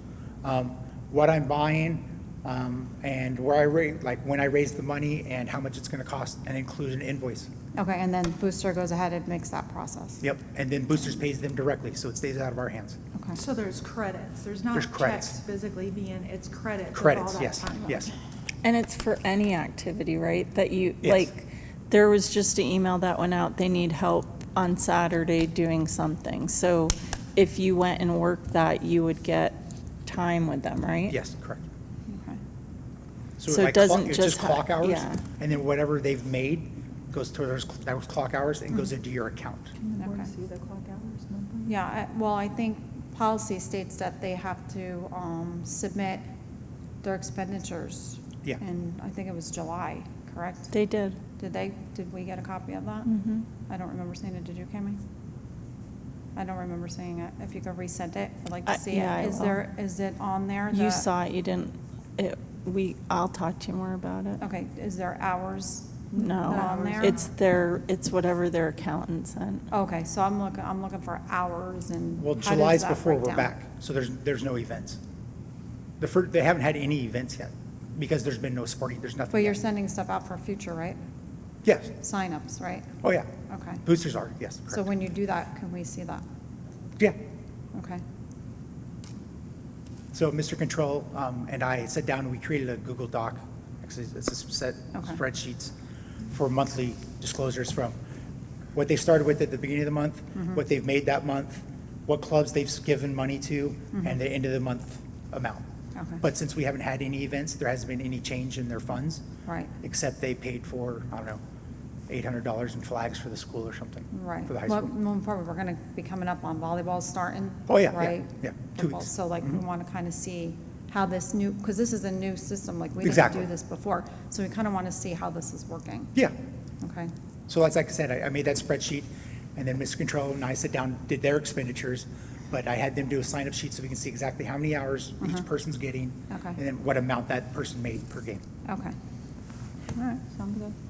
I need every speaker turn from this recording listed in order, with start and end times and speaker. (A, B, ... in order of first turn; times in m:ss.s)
0:00.4-0:07.5 A
0:07.8-0:10.2 B
0:10.2-0:13.0 A
0:13.3-0:18.1 C
0:14.7-0:15.4 A
0:16.9-0:18.1 A
0:18.6-0:31.2 D
0:31.1-0:31.6 A
0:32.1-0:32.4 B
0:33.4-0:39.7 A
0:33.5-0:35.2 D
0:39.8-0:41.7 C
0:40.0-0:40.3 B
0:41.7-0:46.2 B
0:47.0-0:50.7 B
0:50.7-0:51.2 D
0:51.4-0:53.1 B
0:53.1-0:53.5 D
0:53.7-0:55.0 B
0:56.4-1:01.1 B
0:58.7-0:59.6 D
1:00.7-1:04.4 D
1:04.4-1:07.2 B
1:06.1-1:07.2 C
1:06.2-1:09.7 D
1:09.7-1:13.5 B
1:12.2-1:15.0 A
1:16.0-1:19.6 A
1:19.3-1:21.0 B
1:21.6-1:21.9 A
1:22.0-1:22.9 B
1:23.0-1:23.3 A
1:23.5-1:23.8 B
1:23.8-1:24.9 A
1:24.7-1:26.2 B
1:27.7-1:28.0 B
1:30.1-1:35.7 A
1:36.3-1:38.0 A
1:38.8-1:45.6 A
1:46.0-1:46.2 B
1:46.2-1:49.2 A
1:49.5-1:49.7 B
1:49.8-1:51.4 A
1:52.1-1:54.9 A
1:54.1-2:06.1 B
1:57.7-1:59.6 A
2:03.0-2:03.5 A
2:06.8-2:07.1 B
2:07.5-2:18.4 A
2:16.3-2:16.6 B
2:18.7-2:19.0 B
2:20.0-2:20.7 B